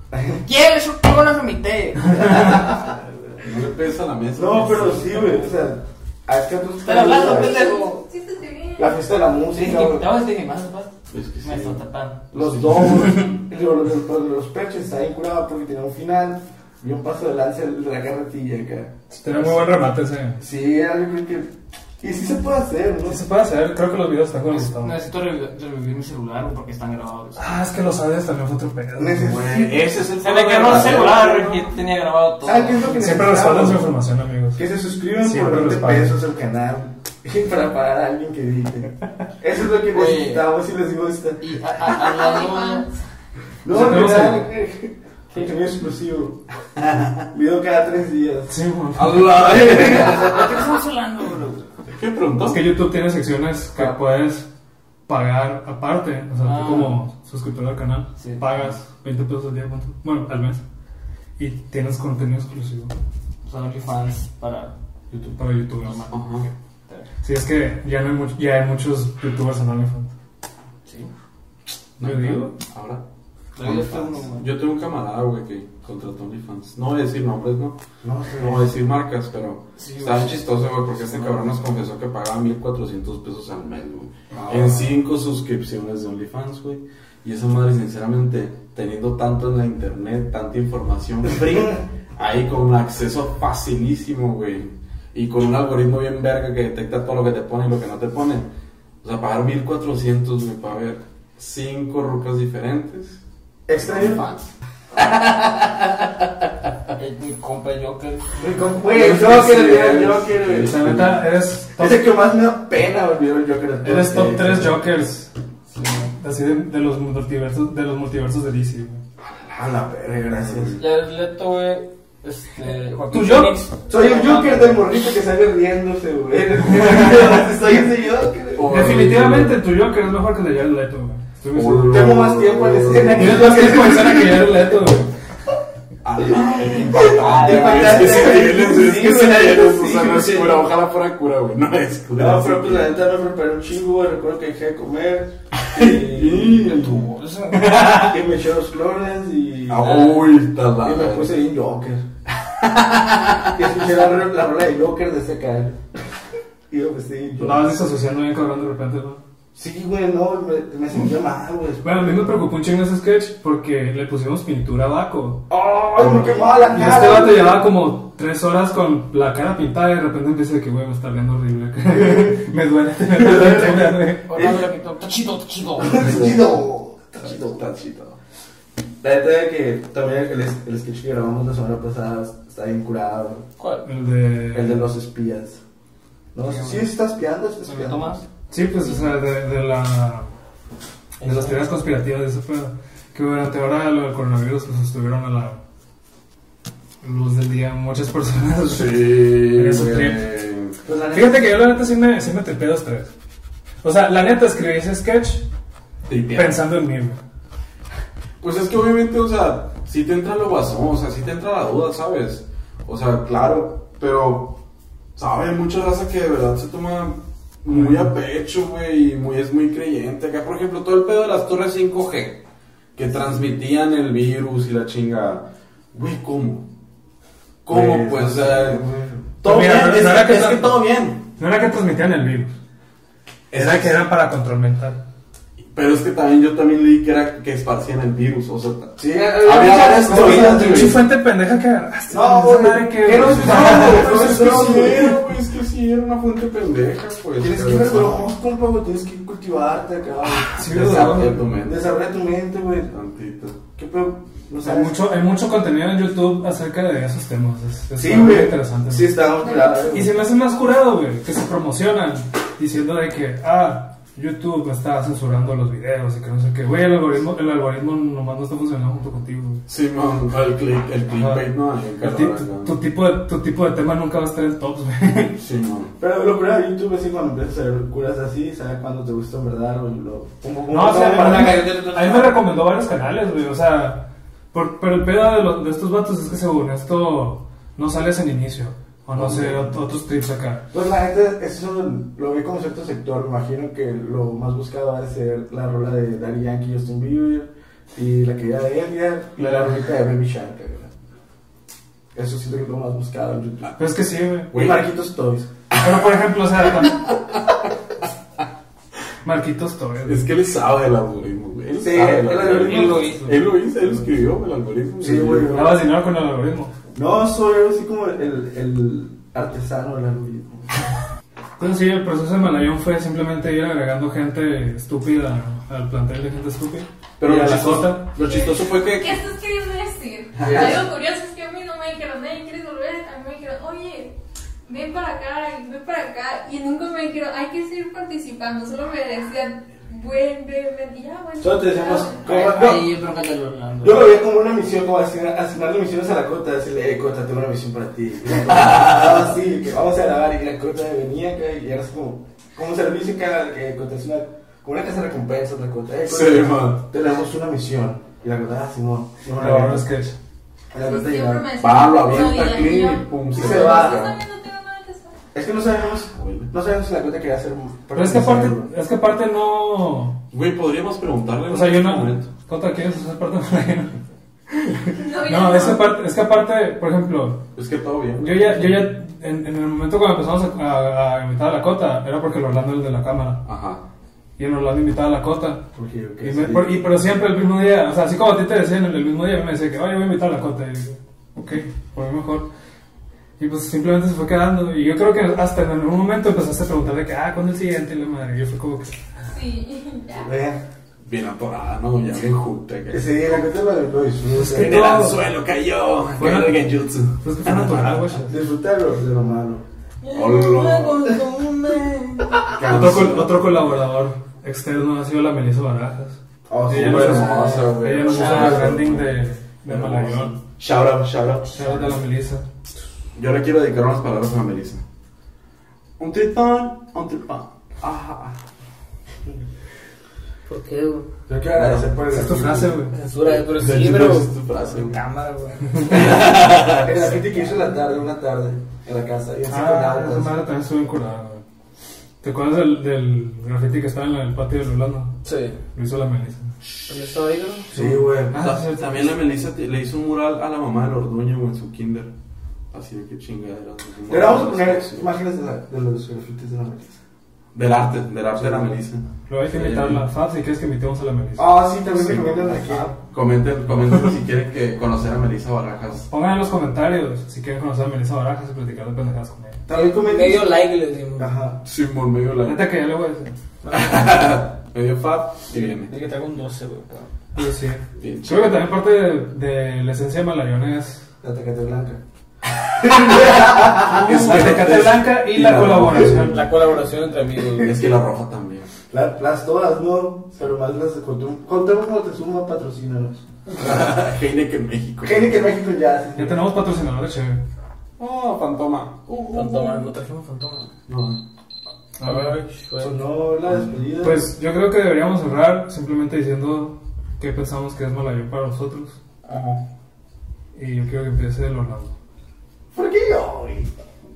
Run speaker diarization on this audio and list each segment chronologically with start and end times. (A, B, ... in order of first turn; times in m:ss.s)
0:00.1-0:00.4 A
0:00.4-0:02.7 B
0:02.4-0:03.4 A
0:03.4-0:05.4 C
0:04.4-0:07.7 A
0:06.8-0:08.0 B
0:07.2-0:09.0 D
0:08.8-0:10.1 A
0:09.5-0:10.9 B
0:11.1-0:11.8 C
0:11.4-0:12.2 B
0:12.3-0:13.2 C
0:12.3-0:18.9 A
0:19.1-0:20.4 E
0:19.3-0:19.8 B
0:20.4-0:23.2 A
0:23.1-0:25.0 E
0:24.5-0:27.5 B
0:27.4-0:29.4 E
0:29.0-0:30.0 A
0:29.2-0:31.6 C
0:30.2-0:32.9 B
0:32.4-0:33.9 A
0:32.9-0:34.6 E
0:34.6-0:41.6 A
0:35.2-0:36.2 E
0:39.9-0:40.5 B
0:41.4-0:42.9 B
0:41.9-0:43.0 D
0:43.6-0:46.4 A
0:43.7-0:44.5 E
0:47.3-0:50.3 A
0:48.5-0:49.5 E
0:49.2-0:51.7 B
0:51.9-0:52.7 C
0:52.4-0:54.5 E
0:55.1-1:00.6 E
0:56.4-0:57.0 B
0:58.2-0:58.5 B
1:01.4-1:02.9 E
1:03.4-1:04.7 B
1:05.4-1:06.1 E
1:05.8-1:07.1 B
1:06.1-1:06.5 C
1:07.2-1:10.1 E
1:10.8-1:11.1 B
1:12.0-1:13.0 C
1:12.0-1:12.5 E
1:13.6-1:14.5 B
1:13.6-1:17.8 C
1:18.0-1:18.7 A
1:18.4-1:38.5 C
1:19.8-1:20.6 B
1:24.3-1:24.9 A
1:39.0-1:43.2 C
1:43.7-1:44.4 A
1:43.8-1:44.4 C
1:47.0-1:48.4 B
1:48.4-1:51.0 A
1:48.9-1:51.2 C
1:50.6-1:52.0 E
1:51.8-1:54.8 A
1:53.8-1:55.3 E
1:55.7-1:56.1 B
1:56.1-1:59.0 E
1:59.3-2:00.8 A
2:00.4-2:00.8 C
2:00.8-2:04.9 B
2:03.1-2:03.5 E
2:03.9-2:09.0 A
2:08.6-2:09.6 C
2:08.6-2:12.1 E
2:11.5-2:13.7 C
2:11.8-2:14.5 A
2:13.1-2:15.1 E
2:16.0-2:23.0 C
2:16.9-2:20.6 B
2:17.2-2:18.8 A
2:22.2-2:26.8 A
2:25.6-2:27.1 C
2:26.6-2:28.2 B
2:27.8-2:30.1 A
2:29.7-2:31.4 C
2:29.8-2:30.2 B
2:30.8-2:32.1 A
2:32.5-2:33.5 C
2:33.6-2:35.8 A
2:36.7-2:37.7 A
2:37.4-2:39.2 E
2:39.6-2:42.4 A
2:41.8-2:45.4 E
2:45.5-2:47.7 A
2:46.0-2:47.3 C
2:46.8-2:54.3 E
2:53.1-2:54.6 A
2:54.3-2:56.2 B
2:55.8-2:57.6 A
2:55.9-2:56.6 C
2:57.2-2:58.2 C
2:59.0-3:03.5 A
3:03.6-3:03.9 B
3:03.8-3:04.9 E
3:04.5-3:05.6 A
3:06.3-3:08.2 A
3:06.4-3:06.9 B
3:07.6-3:08.2 B
3:08.5-3:10.3 E
3:11.2-3:11.6 B
3:11.2-3:15.6 E
3:17.0-3:20.3 E
3:18.7-3:20.8 C
3:20.8-3:21.5 A
3:21.1-3:23.1 E
3:23.8-3:25.4 E
3:26.1-3:26.6 C
3:26.3-3:27.2 E
3:28.4-3:34.6 C
3:35.2-3:42.4 C
3:37.7-3:38.1 E
3:43.0-3:46.7 C
3:47.6-3:48.8 C
3:47.7-3:49.3 A
3:49.4-3:51.2 C
3:49.4-3:50.8 E
3:51.4-3:52.6 E
3:53.5-3:54.0 C
3:53.5-3:55.0 E
3:55.7-4:01.0 C
3:59.0-4:01.0 A
4:00.0-4:05.2 E
4:02.1-4:05.2 A
4:03.1-4:08.3 C
4:07.4-4:10.9 A
4:10.5-4:11.4 E
4:10.6-4:11.8 C
4:11.6-4:12.9 A
4:12.9-4:13.6 C
4:13.8-4:15.0 A
4:14.6-4:19.2 E
4:18.0-4:20.1 A
4:19.4-4:20.0 D
4:19.9-4:29.6 E
4:29.7-4:32.8 C
4:31.2-4:31.5 E
4:32.0-4:35.4 E
4:35.4-4:35.9 C
4:36.0-4:42.4 A
4:40.7-4:50.6 E
4:49.1-4:49.8 A
4:50.7-5:00.9 A
4:59.4-4:59.8 E
5:02.2-5:03.8 A
5:03.8-5:04.5 E
5:04.5-5:04.8 C
5:04.5-5:05.5 A
5:05.7-5:07.1 E
5:09.2-5:10.3 E
5:10.0-5:15.8 C
5:11.8-5:13.2 A
5:12.4-5:13.4 B
5:15.0-5:15.9 A
5:15.5-5:16.7 E
5:17.0-5:20.7 A
5:21.6-5:28.2 E
5:27.2-5:29.2 C
5:28.2-5:34.2 D
5:30.4-5:30.9 C
5:30.4-5:30.8 A
5:34.7-5:42.6 D
5:41.4-5:42.9 A
5:42.2-5:44.1 B
5:43.8-5:59.9 A
5:48.5-5:48.9 C
5:56.1-5:56.8 C
5:59.4-6:00.2 E
6:00.7-6:01.5 A
6:00.8-6:05.2 D
6:01.6-6:04.2 C
6:03.3-6:04.1 A
6:05.3-6:08.7 A
6:06.1-6:06.5 C
6:08.0-6:10.2 E
6:10.3-6:12.3 C
6:11.5-6:14.0 E
6:14.5-6:17.4 E
6:15.0-6:15.9 D
6:17.6-6:18.9 C
6:18.2-6:23.5 E
6:23.4-6:23.8 C
6:24.4-6:25.6 E
6:25.7-6:26.8 A
6:26.2-6:32.5 E
6:33.4-6:38.9 E
6:39.3-6:40.3 D
6:40.1-6:40.6 A
6:41.0-6:43.5 C
6:42.9-6:44.9 A
6:44.3-6:45.2 E
6:44.6-6:48.2 C
6:46.2-6:46.6 E
6:47.2-6:48.3 E
6:48.3-6:49.6 A
6:50.0-6:52.4 B
6:50.1-6:51.8 C
6:52.5-6:53.8 C
6:52.6-6:56.2 E
6:56.5-6:57.8 A
6:56.7-7:01.7 C
6:56.7-7:00.4 E
6:58.1-6:58.6 B
7:01.5-7:02.5 E
7:03.2-7:04.8 C
7:06.0-7:07.5 C
7:07.8-7:08.4 A
7:10.5-7:11.1 B
7:11.3-7:12.8 A
7:12.1-7:13.0 E
7:12.9-7:16.9 B
7:13.2-7:15.0 C
7:15.9-7:16.7 C
7:16.7-7:20.4 A
7:19.5-7:21.4 E
7:22.2-7:25.2 E
7:25.2-7:25.6 B
7:25.7-7:26.5 E
7:26.9-7:27.7 B
7:27.7-7:28.4 A
7:27.8-7:32.1 C
7:28.3-7:29.1 E
7:32.7-7:35.1 C
7:34.1-7:37.0 A
7:37.5-7:40.1 C
7:38.4-7:38.8 A
7:39.3-7:42.9 E
7:41.4-7:43.0 A
7:43.1-7:46.1 C
7:46.1-7:49.6 E
7:49.7-7:50.5 A
7:49.7-7:51.3 B
7:51.2-7:51.6 A
7:51.6-7:52.7 C
7:52.4-7:53.4 E
7:53.6-7:54.4 B
7:53.7-7:55.9 C
7:55.5-7:57.1 B
7:57.4-8:01.0 E
7:58.0-7:58.7 C
8:01.2-8:02.0 A
8:02.8-8:04.1 A
8:03.1-8:06.4 C
8:03.8-8:06.4 E
8:05.8-8:06.1 A
8:06.1-8:07.8 B
8:07.6-8:08.7 C
8:08.9-8:13.2 A
8:13.5-8:15.5 C
8:15.0-8:16.4 A
8:16.2-8:17.4 E
8:18.0-8:19.9 C
8:19.3-8:20.7 B
8:20.9-8:21.2 C
8:22.0-8:22.4 E
8:22.0-8:23.0 B
8:22.8-8:24.3 A
8:24.0-8:29.0 E
8:29.2-8:29.6 B
8:30.5-8:31.9 E
8:32.7-8:33.7 A